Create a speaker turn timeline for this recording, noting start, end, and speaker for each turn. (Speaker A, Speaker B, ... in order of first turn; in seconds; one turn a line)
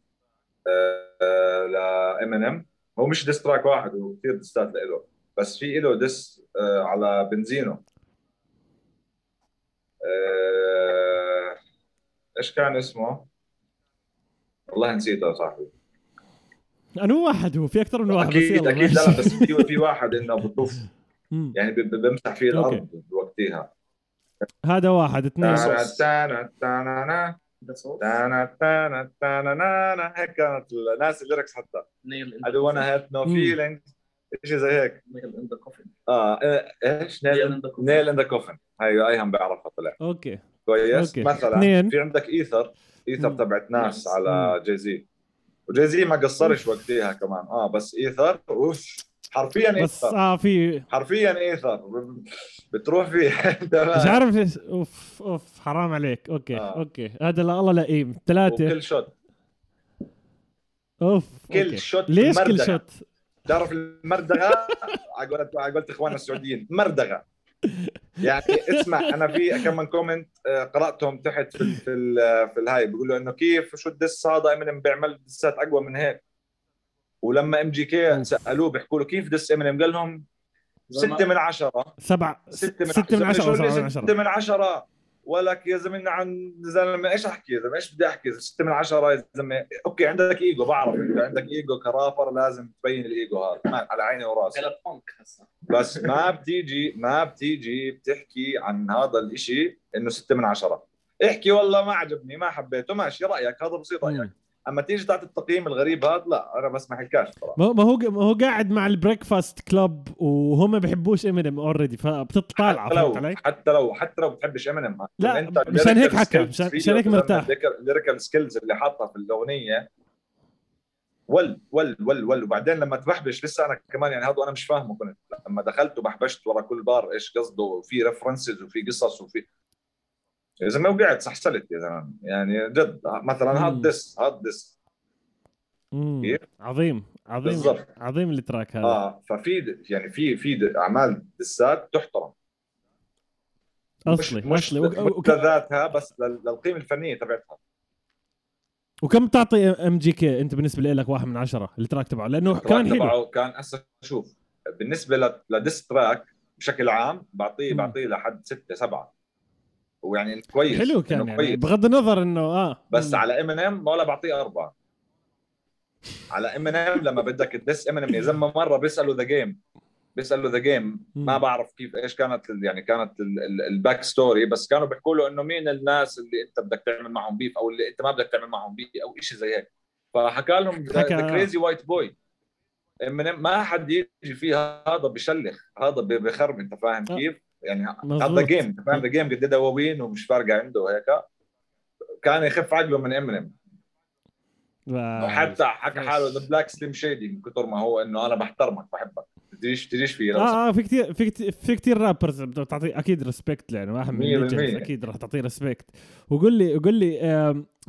Speaker A: 0.7-7.8
Speaker A: 10.0-11.6
Speaker A: 12.4-13.3
Speaker A: 14.7-15.7
Speaker B: 17.0-19.8
Speaker A: 18.1-20.8
Speaker A: 21.5-23.7
Speaker B: 22.5-22.8
Speaker B: 24.7-25.8
Speaker A: 25.4-27.4
Speaker C: 25.5-26.0
Speaker C: 27.6-28.2
Speaker A: 28.0-31.9
Speaker C: 32.0-32.9
Speaker A: 32.4-33.8
Speaker B: 33.2-33.6
Speaker A: 34.4-35.0
Speaker C: 35.1-35.9
Speaker A: 36.1-40.0
Speaker C: 37.3-38.0
Speaker B: 40.0-41.9
Speaker A: 40.6-45.0
Speaker B: 44.3-44.5
Speaker A: 45.7-50.2
Speaker B: 49.8-50.9
Speaker A: 50.9-54.2
Speaker B: 53.9-58.7
Speaker A: 56.5-56.8
Speaker A: 58.5-59.1
Speaker B: 61.0-63.0
Speaker A: 61.5-62.8
Speaker A: 63.5-67.2
Speaker A: 68.2-76.2
Speaker B: 68.5-69.1
Speaker A: 77.2-80.2
Speaker C: 80.9-81.2
Speaker A: 80.9-81.9
Speaker B: 82.0-84.1
Speaker A: 82.5-94.7
Speaker C: 94.5-96.2
Speaker A: 95.7-107.6
Speaker B: 104.0-104.3
Speaker B: 107.6-113.4
Speaker A: 112.5-119.9
Speaker B: 115.2-117.5
Speaker A: 121.3-129.4
Speaker A: 130.6-134.7
Speaker B: 133.5-133.9
Speaker B: 135.9-139.0
Speaker A: 137.4-137.8
Speaker A: 138.8-142.3
Speaker B: 144.1-145.4
Speaker A: 144.1-147.6
Speaker B: 149.0-153.1
Speaker A: 152.5-159.1
Speaker B: 157.7-157.9
Speaker A: 160.0-161.6
Speaker B: 160.7-163.2
Speaker A: 162.9-164.7
Speaker A: 166.3-169.6
Speaker A: 170.2-182.1
Speaker B: 180.9-181.5
Speaker A: 183.0-191.2
Speaker B: 188.0-189.0
Speaker A: 192.2-193.5
Speaker B: 194.9-196.4
Speaker A: 195.2-200.6
Speaker B: 200.3-207.7
Speaker A: 204.1-204.9